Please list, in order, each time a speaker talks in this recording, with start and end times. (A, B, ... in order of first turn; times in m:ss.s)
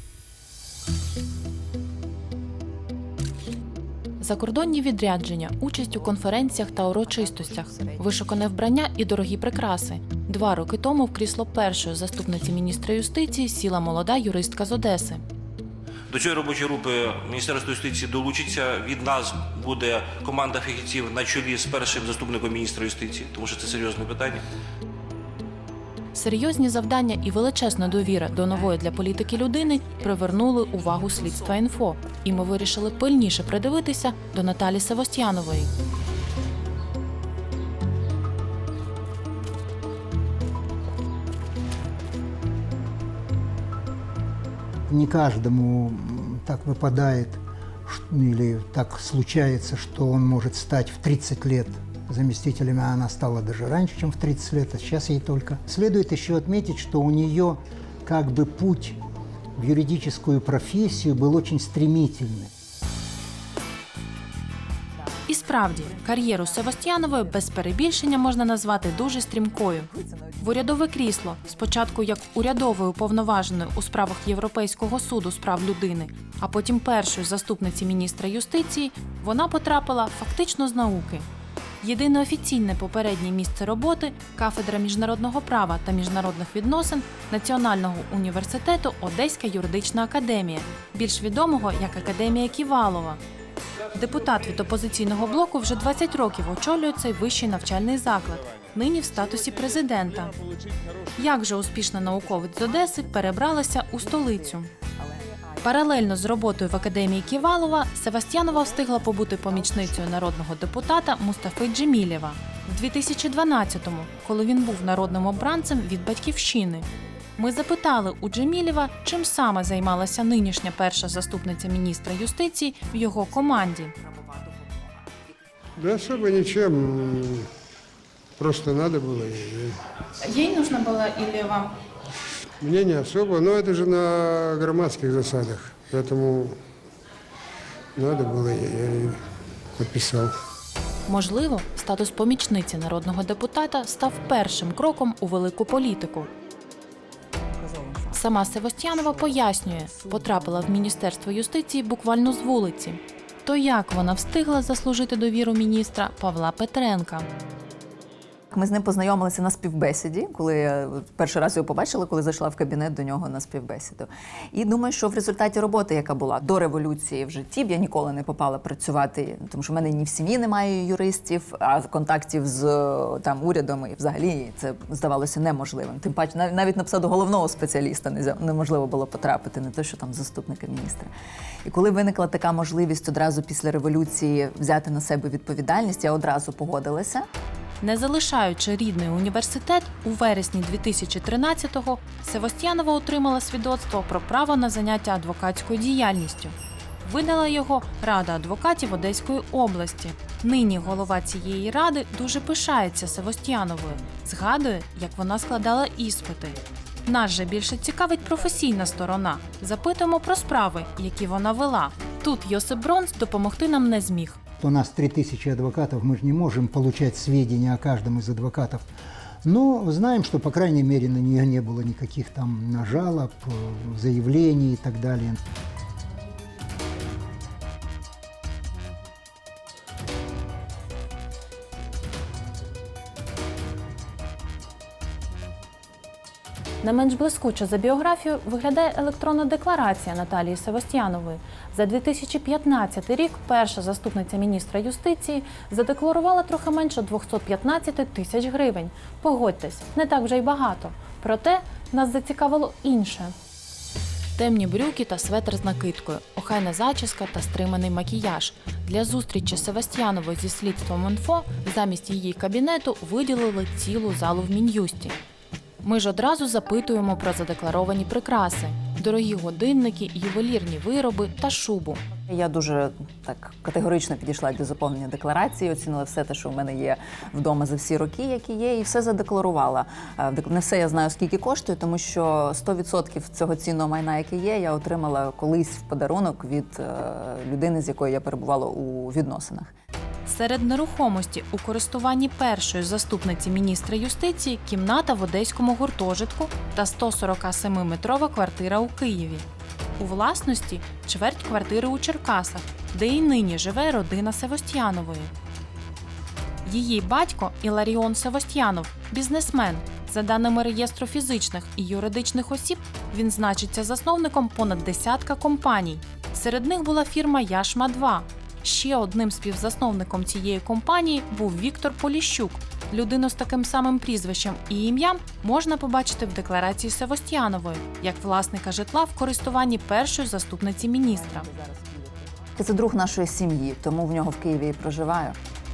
0:04.2-0:15.2 A
0:06.7-0:08.0 B
0:16.1-0:24.4 C
0:26.1-0:35.7 A
0:44.9-0:59.0 D
0:59.6-1:02.5 D
1:05.3-1:21.2 A
1:06.2-1:07.1 B
1:09.9-1:10.6 B
1:21.8-1:33.2 A
1:33.9-1:40.3 A
1:41.2-1:44.7 A
1:45.6-1:56.8 A
1:57.4-2:03.9 A
2:05.8-2:07.5 E
2:08.4-2:09.8 E
2:10.2-2:11.7 A
2:12.6-2:16.6 E
2:18.0-2:19.2 E
2:19.8-2:20.3 E
2:21.1-2:26.3 A
2:28.1-2:37.3 A
2:38.5-3:01.1 B
3:01.6-3:07.3 B
3:07.8-3:34.4 A
3:34.6-3:38.9 D
3:39.4-3:45.4 D
3:56.8-4:13.3 A
4:14.4-4:25.2 A
4:25.8-4:32.0 A
4:32.3-4:49.7 B
4:50.2-4:59.4 A
5:00.0-5:05.3 A
5:06.6-5:31.5 A
5:31.5-5:35.4 B